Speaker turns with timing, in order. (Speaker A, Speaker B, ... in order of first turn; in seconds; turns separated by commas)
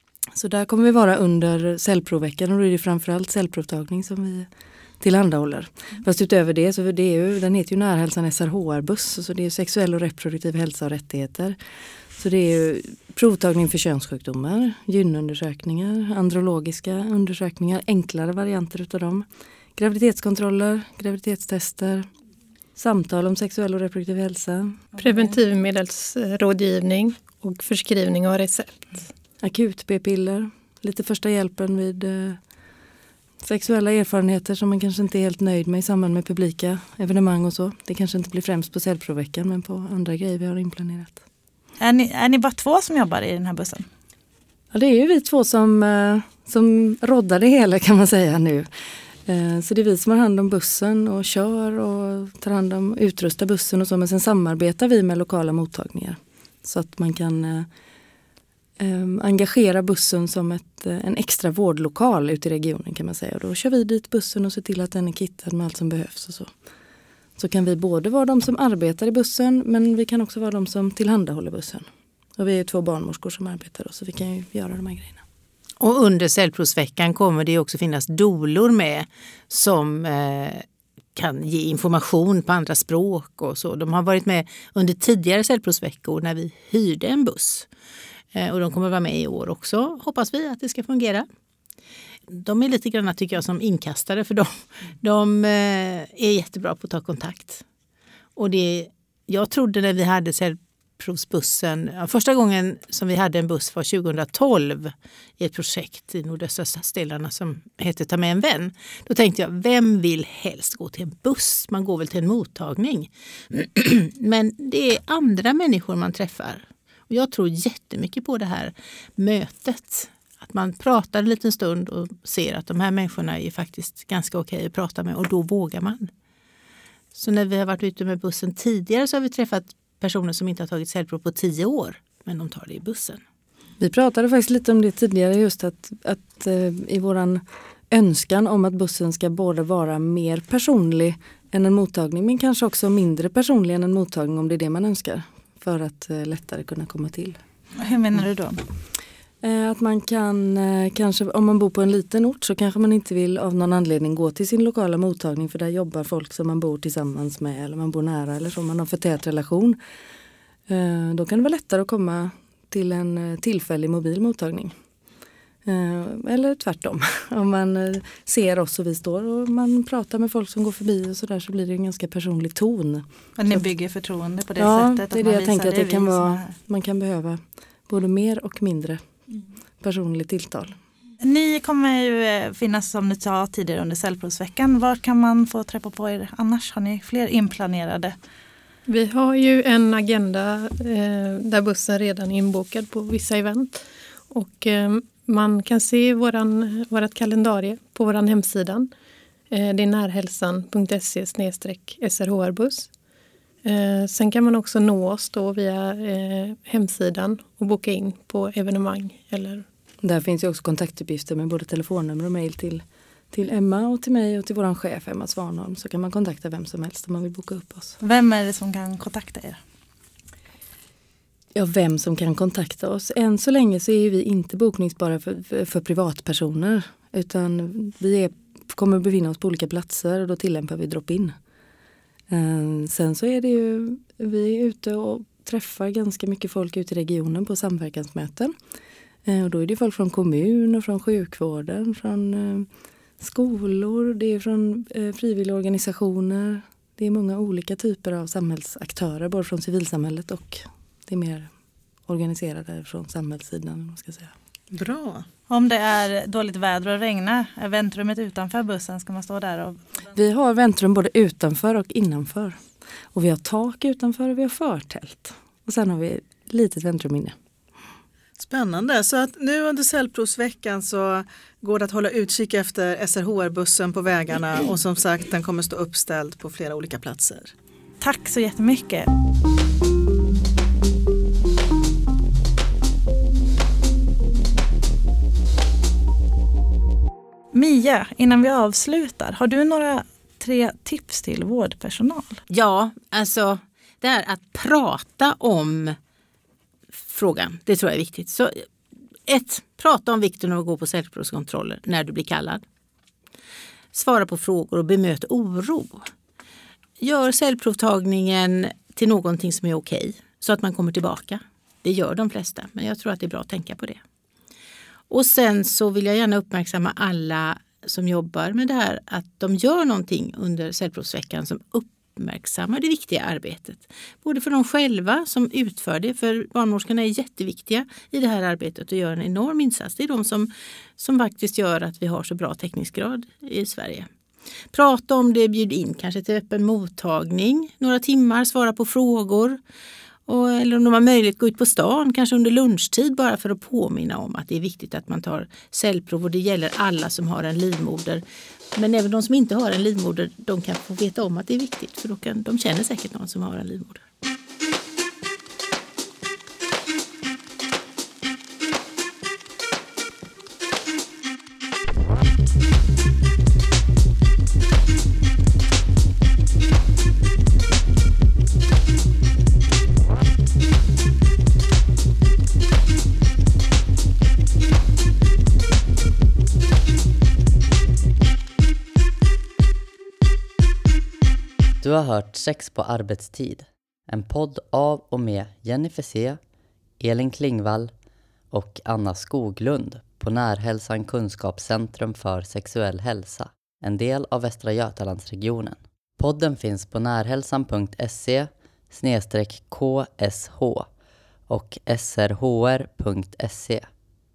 Speaker A: 0.4-11.6, Speaker A: 12.1-22.1, Speaker A: 22.8-24.9, Speaker B: 25.0-29.1, Speaker A: 29.4-32.4, Speaker A: 33.4-41.2, Speaker C: 41.8-43.9, Speaker A: 44.7-48.7, Speaker A: 49.3-57.7, Speaker A: 58.8-66.5, Speaker A: 67.4-71.9, Speaker A: 72.4-75.2, Speaker D: 75.8-80.7, Speaker D: 81.2-87.7, Speaker D: 88.3-91.3, Speaker D: 92.3-97.6, Speaker D: 98.4-126.1, Speaker D: 127.1-133.2, Speaker A: 133.8-147.4, Speaker C: 147.8-148.7, Speaker A: 149.4-159.8, Speaker A: 160.7-164.8, Speaker A: 165.7-173.7, Speaker C: 173.4-176.6, Speaker A: 174.6-179.1, Speaker A: 179.8-180.8, Speaker C: 181.2-188.2, Speaker B: 188.9-198.9, Speaker B: 199.5-202.9, Speaker B: 203.6-209.7, Speaker A: 210.0-218.0, Speaker C: 218.0-219.6, Speaker A: 221.6-231.4, Speaker A: 232.3-238.6, Speaker A: 239.2-242.7, Speaker A: 243.2-251.5, Speaker A: 252.1-254.3, Speaker E: 254.7-255.3, Speaker C: 255.5-260.0, Speaker A: 260.1-267.4, Speaker E: 268.4-277.5, Speaker C: 278.0-279.1, Speaker C: 287.5-292.4, Speaker D: 292.5-296.0, Speaker D: 297.1-298.7, Speaker D: 299.3-302.6, Speaker D: 303.9-306.1, Speaker D: 307.0-314.0, Speaker D: 315.1-334.1, Speaker D: 334.7-339.6, Speaker D: 340.3-354.0, Speaker F: 381.8-386.4, Speaker F: 387.0-387.9, Speaker F: 388.5-400.9, Speaker F: 401.5-403.9